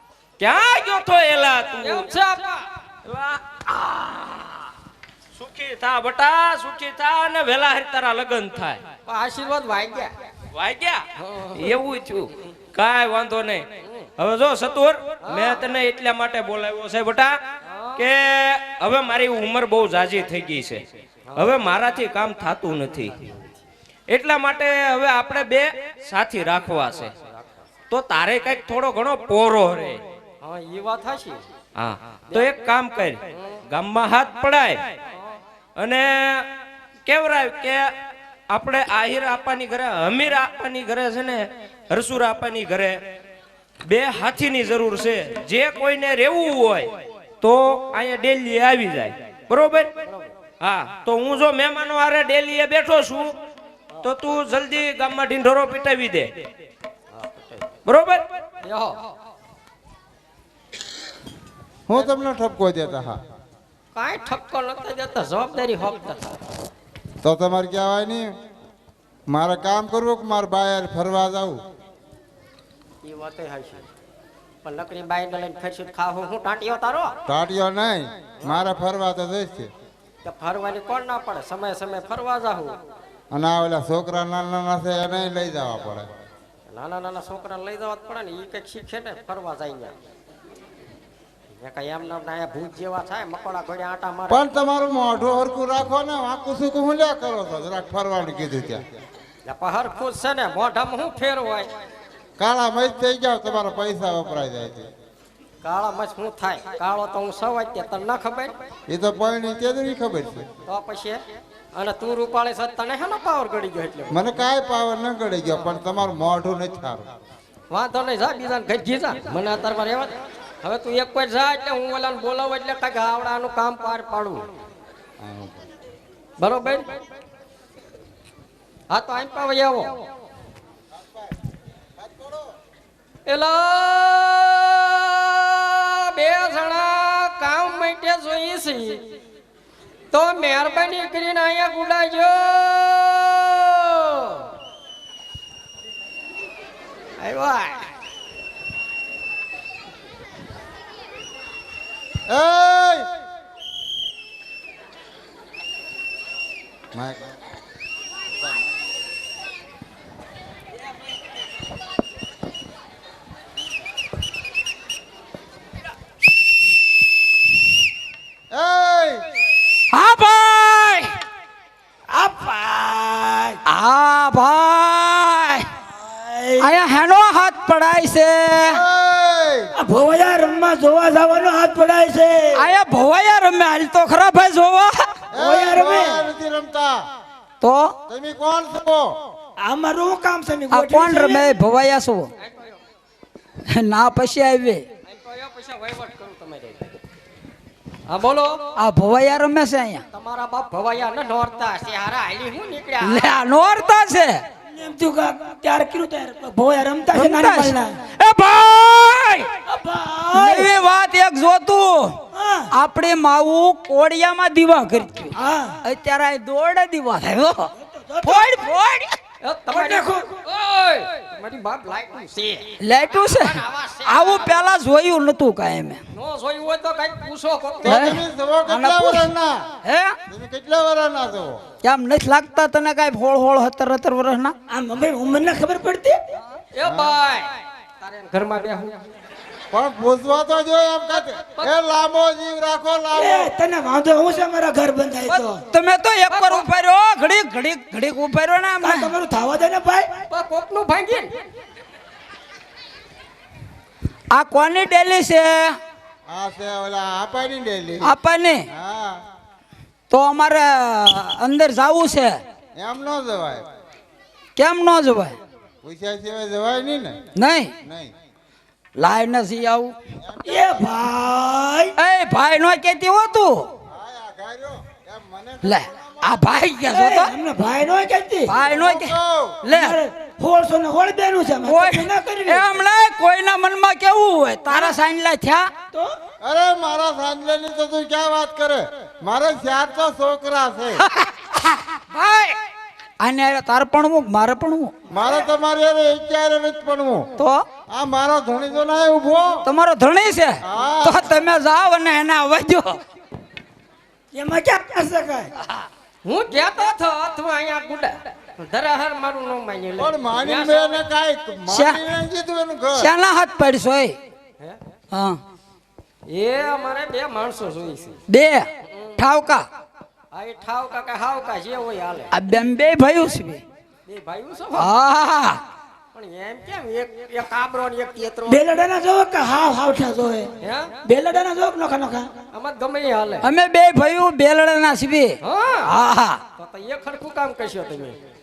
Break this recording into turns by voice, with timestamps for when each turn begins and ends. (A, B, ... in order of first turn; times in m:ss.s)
0:00.4-0:02.1 A
0:01.8-0:02.7 B
0:03.1-0:04.6 A
0:05.4-0:08.8 A
0:09.1-0:10.1 B
0:10.5-0:13.7 A
0:11.2-0:11.7 B
0:14.2-0:17.4 A
0:15.2-0:15.6 B
0:17.6-0:18.0 B
0:18.0-0:20.8 A
0:21.4-0:23.2 A
0:24.1-0:27.1 A
0:27.9-0:30.0 A
0:30.4-0:31.4 B
0:31.8-0:33.2 A
0:33.3-0:33.6 B
0:33.7-0:34.8 A
0:35.8-0:36.5 A
0:37.1-0:37.9 A
0:38.5-0:43.0 A
0:43.9-0:49.9 A
0:50.6-0:53.3 A
0:54.0-0:56.5 A
0:57.1-0:57.6 B
0:57.8-0:58.2 A
0:58.6-0:59.0 B
1:01.9-1:03.2 C
1:03.9-1:06.3 B
1:07.2-1:08.3 C
1:09.3-1:11.6 C
1:13.0-1:13.8 B
1:14.6-1:17.1 B
1:17.3-1:19.7 C
1:20.2-1:22.8 B
1:23.3-1:26.1 C
1:26.7-1:29.9 B
1:31.6-1:34.5 B
1:34.3-1:38.8 C
1:39.5-1:41.7 B
1:42.4-1:44.9 C
1:45.6-1:48.5 B
1:48.9-1:50.5 C
1:50.7-1:51.2 B
1:51.7-1:54.2 B
1:54.1-1:57.0 C
1:57.7-2:04.4 B
2:05.2-2:05.6 C
2:06.4-2:07.0 B
2:08.9-2:10.1 B
2:13.3-2:19.0 B
2:20.1-2:24.4 B
2:27.2-2:27.8 B
2:32.3-2:33.1 C
2:36.9-2:37.2 C
2:48.5-2:49.2 C
2:49.9-2:51.1 D
2:52.1-2:53.6 E
2:53.7-2:55.7 D
2:56.0-2:56.7 E
2:56.6-2:58.8 D
2:58.6-2:59.7 C
2:59.8-3:02.6 E
3:02.5-3:05.1 D
3:05.3-3:06.2 E
3:05.3-3:07.0 C
3:07.6-3:08.0 D
3:08.1-3:09.1 C
3:09.6-3:11.6 E
3:10.7-3:12.3 D
3:12.4-3:12.8 B
3:13.7-3:14.8 D
3:15.1-3:16.9 B
3:18.1-3:18.6 B
3:18.8-3:20.0 D
3:20.1-3:23.3 B
3:23.0-3:24.4 D
3:24.7-3:28.0 E
3:27.1-3:29.5 D
3:29.7-3:30.7 E
3:30.3-3:32.2 D
3:32.3-3:32.7 E
3:32.7-3:37.7 D
3:35.3-3:35.8 E
3:37.8-3:38.6 E
3:38.2-3:39.2 D
3:39.4-3:44.6 B
3:39.7-3:40.3 E
3:42.8-3:46.0 D
3:46.1-3:48.2 B
3:47.8-3:49.6 C
3:47.8-3:49.3 D
3:49.8-3:50.2 D
3:50.3-3:51.6 C
3:51.8-3:54.5 D
3:54.7-3:56.2 E
3:56.7-3:59.0 B
3:56.8-3:57.2 C
3:59.7-4:03.5 C
4:03.1-4:05.6 E
4:05.7-4:09.1 D
4:06.3-4:06.6 B
4:08.8-4:10.1 E
4:10.3-4:11.4 B
4:14.3-4:15.8 D
4:16.3-4:18.1 C
4:18.0-4:18.6 D
4:18.7-4:19.2 C
4:20.1-4:22.4 D
4:22.8-4:23.6 C
4:24.6-4:25.4 D
4:25.8-4:27.2 C
4:27.4-4:27.7 D
4:27.8-4:28.1 C
4:29.0-4:30.0 D
4:30.4-4:31.9 E
4:32.0-4:33.7 D
4:33.9-4:35.9 C
4:35.6-4:37.3 D
4:36.9-4:38.5 E
4:38.5-4:40.0 D
4:38.6-4:39.6 C
4:39.7-4:42.8 E
4:41.6-4:45.7 D
4:44.7-4:45.0 E
4:46.4-4:51.0 C
4:51.0-4:51.3 D
4:52.1-4:52.6 D
4:53.2-4:54.9 D
4:55.1-4:57.3 C
4:57.4-4:57.6 D
4:57.9-4:59.6 C
4:59.6-5:03.0 D
5:00.6-5:01.4 C
5:04.3-5:05.5 E
5:06.2-5:11.0 B
5:10.0-5:13.1 C
5:11.7-5:12.0 D
5:13.0-5:14.2 D
5:15.1-5:15.4 D
5:16.3-5:18.2 B
5:18.3-5:19.6 D
5:18.9-5:19.2 B
5:20.3-5:22.3 B
5:22.3-5:23.6 D
5:24.0-5:24.9 B
5:24.8-5:25.6 D
5:26.1-5:28.6 B
5:28.5-5:30.5 E
5:30.6-5:30.9 B
5:31.0-5:32.3 E
5:32.5-5:33.4 B
5:33.4-5:36.4 D
5:35.4-5:35.9 B
5:36.6-5:38.2 B